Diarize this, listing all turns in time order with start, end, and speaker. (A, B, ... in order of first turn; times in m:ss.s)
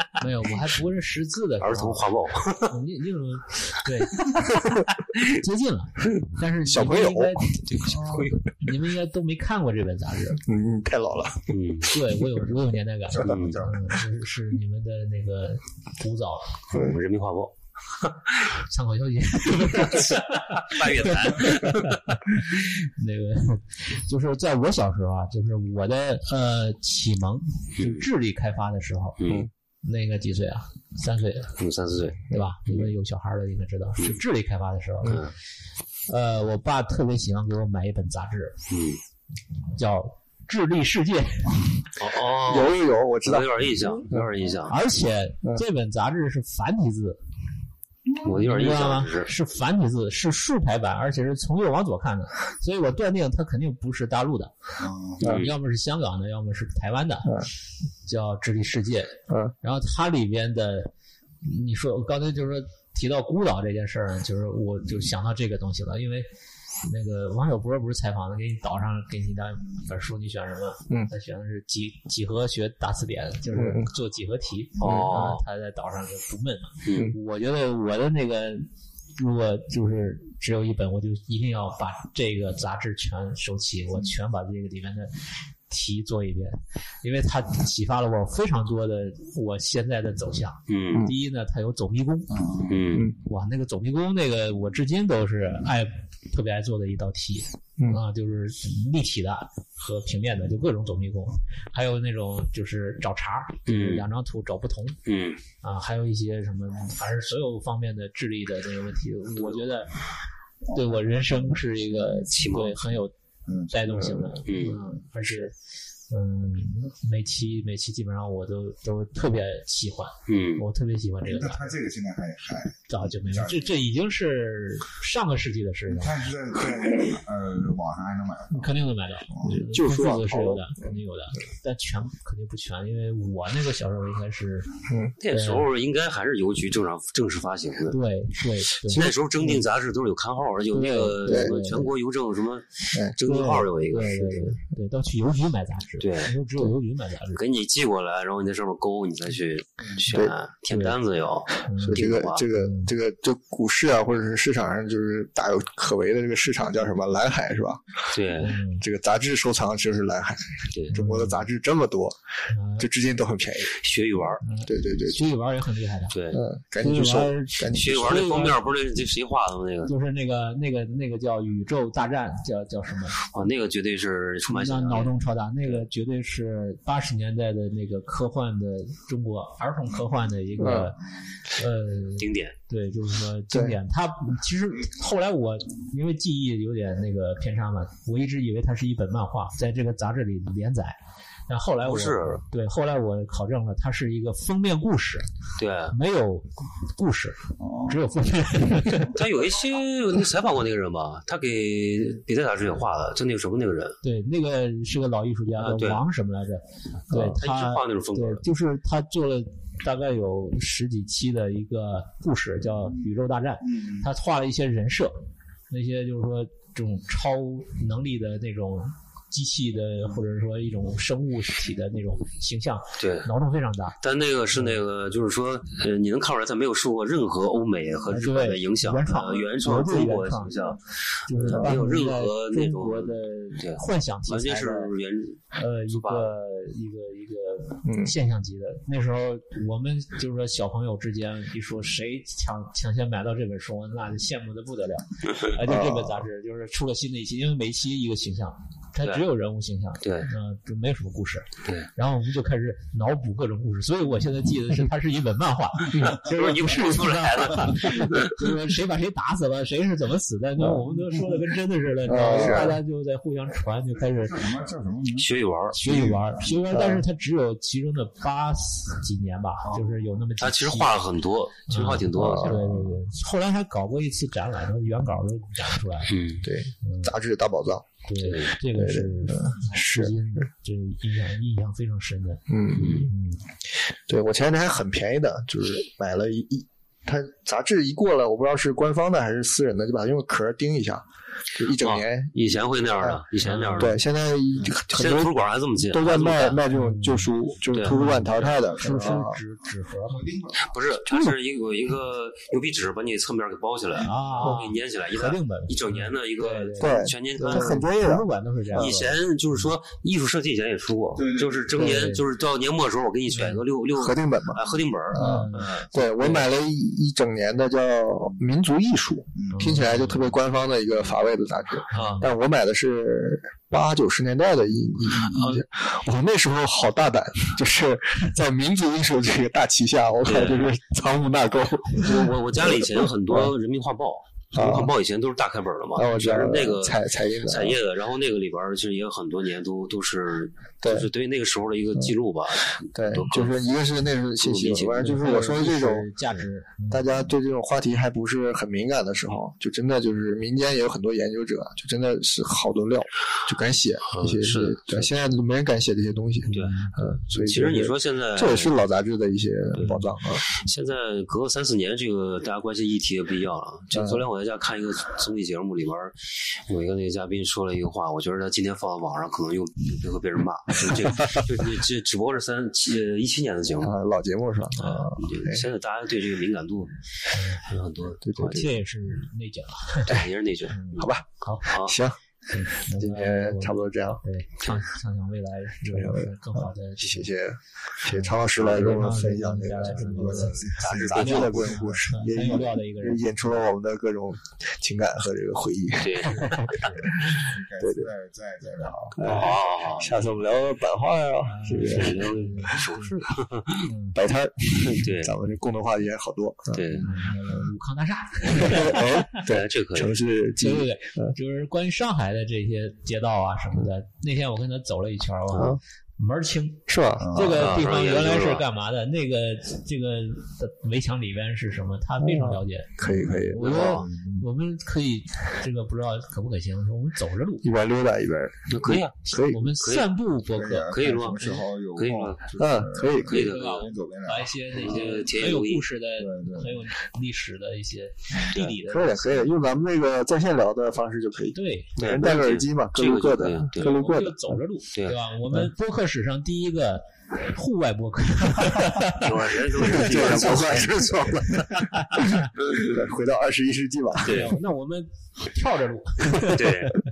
0:00.2-0:02.1 A
0:01.6-0:02.7 B
0:02.6-0:07.6 A
0:06.7-0:07.6 C
0:07.7-0:08.5 B
0:07.8-0:08.4 D
0:08.6-0:10.4 A
0:10.4-0:11.6 C
0:11.5-0:12.0 B
0:11.9-0:16.7 A
0:13.2-0:13.7 B
0:13.2-0:13.9 D
0:16.7-0:17.5 B
0:18.5-0:29.2 A
0:20.0-0:21.9 B
0:27.8-0:28.1 B
0:29.2-0:29.5 B
0:29.8-0:31.6 A
0:31.6-0:32.9 B
0:32.3-0:35.2 A
0:35.0-0:35.3 B
0:36.1-0:38.6 A
0:38.7-0:39.0 B
0:39.7-0:41.9 A
0:42.0-0:44.8 B
0:42.5-0:44.4 C
0:44.7-0:47.2 A
0:48.2-0:49.3 B
0:48.4-0:54.7 A
0:54.8-0:55.4 D
0:55.2-0:55.5 B
0:55.3-0:57.4 A
0:58.1-1:00.9 A
0:59.3-0:59.5 C
1:01.4-1:06.3 A
1:06.8-1:32.4 A
1:13.5-1:13.9 C
1:14.8-1:15.4 B
1:14.8-1:15.1 C
1:16.8-1:17.2 B
1:30.7-1:31.1 B
1:32.3-1:33.0 D
1:32.7-1:33.1 B
1:33.2-1:45.0 A
1:43.7-1:44.1 B
1:45.1-1:45.4 B
1:45.6-1:50.1 A
1:50.7-1:51.8 D
1:50.7-1:53.1 A
1:52.3-1:53.0 B
1:53.5-1:54.0 D
1:53.7-1:55.6 A
1:53.9-1:54.4 C
1:54.5-1:54.8 B
1:56.1-2:01.7 A
2:00.3-2:00.6 B
2:01.2-2:03.9 D
2:02.9-2:06.1 A
2:05.9-2:09.7 D
2:08.6-2:14.8 A
2:09.4-2:10.9 C
2:14.9-2:15.1 C
2:15.2-2:18.0 B
2:15.3-2:15.7 A
2:17.9-2:19.1 A
2:18.9-2:24.6 B
2:19.0-2:19.6 C
2:20.7-2:21.9 A
2:21.2-2:21.5 C
2:23.2-2:27.4 A
2:26.0-2:26.3 B
2:27.3-2:32.5 B
2:30.7-2:31.0 A
2:31.6-2:32.9 A
2:31.8-2:38.1 C
2:38.1-2:38.6 B
2:38.4-2:38.8 A
2:38.8-2:42.2 C
2:40.9-2:41.5 A
2:42.5-2:42.9 A
2:42.8-2:43.8 C
2:43.8-2:44.4 B
2:44.4-2:46.2 A
2:44.7-2:45.3 C
2:46.1-2:46.4 B
2:46.3-2:48.4 C
2:46.8-2:48.6 A
2:47.7-2:49.9 B
2:49.9-2:53.3 A
2:53.3-2:55.1 B
2:54.5-3:15.4 A
3:00.6-3:00.9 C
3:02.2-3:02.6 B
3:03.5-3:03.8 C
3:11.8-3:12.4 B
3:15.6-3:16.0 B
3:15.9-3:19.1 A
3:17.6-3:18.0 D
3:19.1-3:24.0 B
3:24.0-3:44.0 A
3:25.6-3:26.0 B
3:27.1-3:28.4 B
3:32.8-3:33.1 D
3:33.6-3:34.1 D
3:43.0-3:43.3 B
3:44.0-3:56.3 B
3:48.1-3:50.8 A
3:51.3-3:54.9 A
3:51.4-3:51.8 C
3:55.5-4:24.5 A
3:57.8-3:58.1 C
4:05.6-4:06.2 C
4:10.0-4:10.3 B
4:15.9-4:16.2 C
4:16.2-4:18.4 B
4:22.1-4:22.8 C
4:24.0-4:25.3 D
4:25.2-4:25.8 B
4:25.7-4:31.0 A
4:25.8-4:26.5 D
4:26.7-4:27.0 C
4:29.6-4:30.0 D
4:30.4-4:32.7 B
4:31.7-4:36.2 A
4:32.1-4:32.7 C
4:36.1-4:36.5 B
4:36.4-4:37.9 C
4:36.8-4:37.1 A
4:38.0-4:43.5 A
4:38.2-4:38.6 B
4:38.7-4:40.2 C
4:42.5-4:53.2 C
4:42.8-4:43.1 B
4:51.8-4:54.0 B
4:53.4-4:53.9 A
4:53.8-4:55.3 C
4:54.9-4:56.6 B
4:55.9-4:59.4 C
4:56.7-4:57.3 A
4:57.7-4:58.0 B
4:57.8-5:00.3 A
4:58.4-4:59.4 D
5:00.1-5:01.0 D
5:00.6-5:07.8 B
5:04.0-5:09.2 A
5:06.8-5:09.0 C
5:08.8-5:16.5 B
5:11.2-5:11.8 D
5:11.8-5:12.2 A
5:13.3-5:13.6 A
5:14.0-5:14.6 C
5:15.1-5:33.5 C
5:15.1-5:16.4 A
5:19.4-5:19.8 D
5:19.5-5:20.4 A
5:21.9-5:22.3 A
5:21.9-5:22.2 B
5:25.3-5:25.6 B
5:30.2-5:30.7 B
5:31.9-5:43.6 B
5:34.5-5:34.9 C
5:35.9-5:37.8 C
5:40.8-5:41.1 C
5:42.7-5:46.1 C
5:44.4-5:45.2 B
5:45.0-5:47.3 A
5:46.9-6:00.4 C
5:54.1-5:55.1 B
5:56.5-5:57.0 A
5:56.5-5:56.8 B
5:57.3-5:58.7 B
5:59.7-6:13.9 B
6:03.9-6:04.2 C
6:13.8-6:15.6 C
6:14.8-6:16.9 B
6:17.3-6:17.7 A
6:17.6-6:18.8 B
6:18.2-6:18.7 C
6:18.4-6:21.8 A
6:20.1-6:21.1 B
6:21.0-6:22.2 C
6:21.7-6:21.9 B
6:22.5-6:27.3 A
6:22.9-6:24.2 C
6:25.8-6:38.1 C
6:28.0-6:33.3 A
6:28.6-6:29.0 B
6:30.1-6:32.8 D
6:30.2-6:31.7 B
6:36.0-6:36.8 B
6:36.5-6:37.2 A
6:36.7-6:40.5 D
6:39.2-6:42.4 C
6:39.2-6:40.1 B
6:41.4-6:44.2 A
6:41.8-6:43.9 B
6:44.2-6:47.1 C
6:44.7-6:45.4 B
6:46.7-6:47.1 B
6:47.0-6:49.4 A
6:48.5-6:51.4 C
6:49.3-6:50.2 B
6:50.6-7:07.7 A
6:55.6-6:55.8 C
6:56.9-6:57.4 C
6:57.2-6:57.8 D
6:57.4-6:58.6 B
7:02.2-7:04.0 C
7:03.0-7:04.5 D
7:03.6-7:04.1 B
7:07.6-7:09.7 C
7:08.7-7:09.1 B
7:09.3-7:11.6 A
7:09.8-7:10.1 B
7:10.4-7:15.1 D
7:10.9-7:12.5 B
7:12.6-7:13.4 C
7:13.2-7:13.9 B
7:13.3-7:19.5 A
7:14.7-7:15.9 B
7:16.2-7:16.9 D
7:18.5-7:24.6 C
7:21.5-7:22.1 A
7:22.0-7:23.9 B
7:23.8-7:30.6 A
7:29.1-7:32.0 B
7:29.9-7:34.5 C
7:32.0-7:32.4 A
7:34.2-7:34.6 B
7:34.3-7:37.0 A
7:36.4-7:37.0 B